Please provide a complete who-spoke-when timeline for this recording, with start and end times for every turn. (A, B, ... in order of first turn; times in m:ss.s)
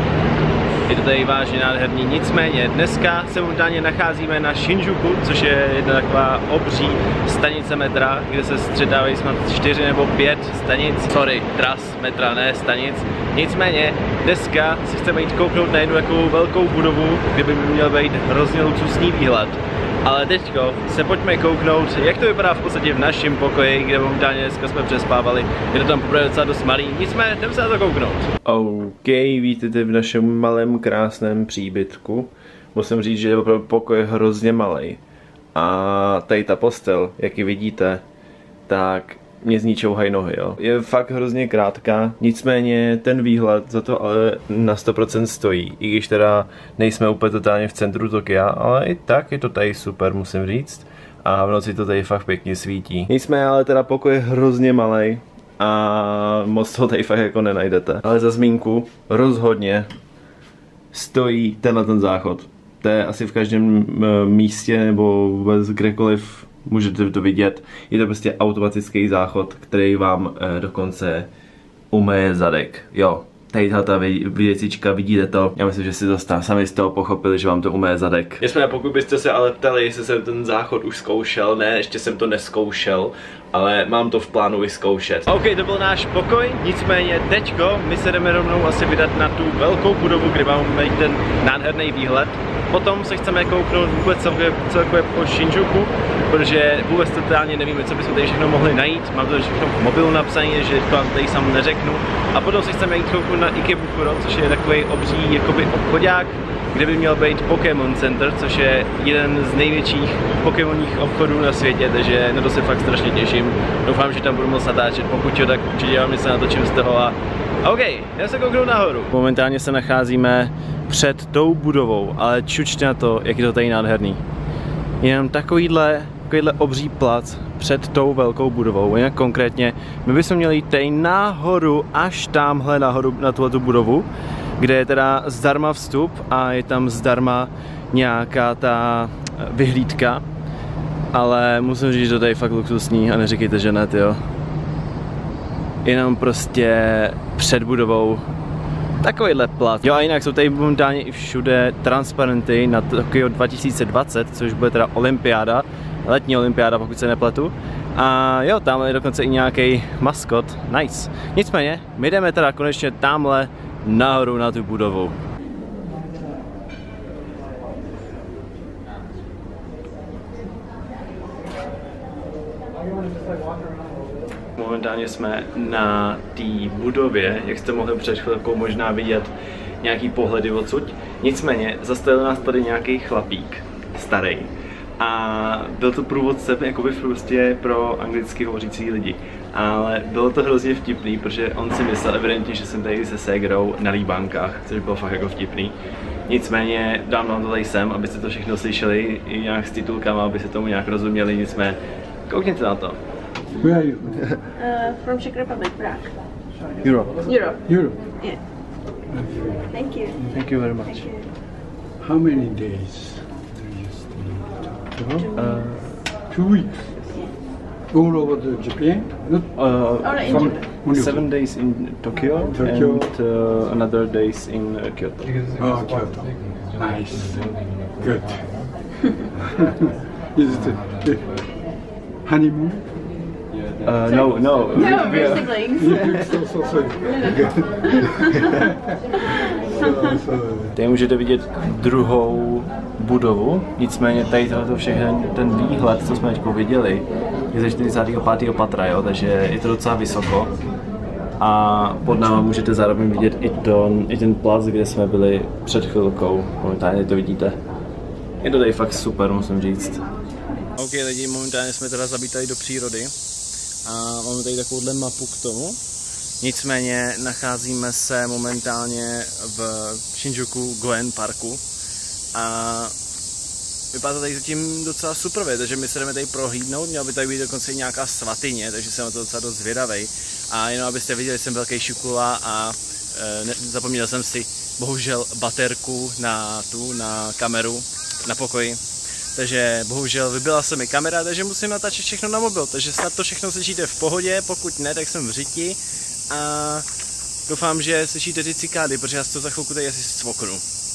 0:00.9-0:35.0 A
0:35.5-0:38.0 A
0:38.7-0:59.9 A
1:00.9-1:11.3 A
1:11.9-2:04.2 A
2:05.0-2:14.1 A
2:14.6-2:20.2 A
2:21.1-2:24.2 A
2:25.8-2:28.2 A
2:29.0-2:45.2 A
2:54.6-3:15.7 A
3:16.3-3:21.8 A
3:22.3-3:23.0 A
3:23.6-3:24.3 B
3:24.6-3:26.1 C
3:26.8-3:27.2 A
3:27.2-3:27.6 C
3:27.6-3:28.0 B
3:29.1-3:29.8 B
3:29.7-3:30.2 C
3:30.2-3:31.2 A
3:32.0-3:35.3 B
3:35.3-3:36.0 A
3:36.3-3:36.9 B
3:37.9-3:39.4 B
3:39.5-3:45.5 A
3:40.0-3:40.4 C
3:40.3-3:41.2 B
3:42.6-3:43.0 B
3:45.6-3:48.6 B
3:49.4-3:51.2 B
3:52.2-3:52.8 B
3:53.8-3:56.2 A
3:54.8-3:57.8 B
3:54.8-3:55.9 C
3:58.2-3:58.6 A
3:58.4-3:58.8 B
3:59.7-4:00.7 B
4:00.7-4:10.5 A
4:11.4-4:17.6 A
4:18.4-4:20.0 A
4:20.8-4:23.1 A
4:23.8-4:25.8 A
4:26.4-4:31.6 A
4:32.3-4:32.9 A
4:33.9-4:48.8 A
4:49.3-4:56.9 A
4:57.5-5:00.6 A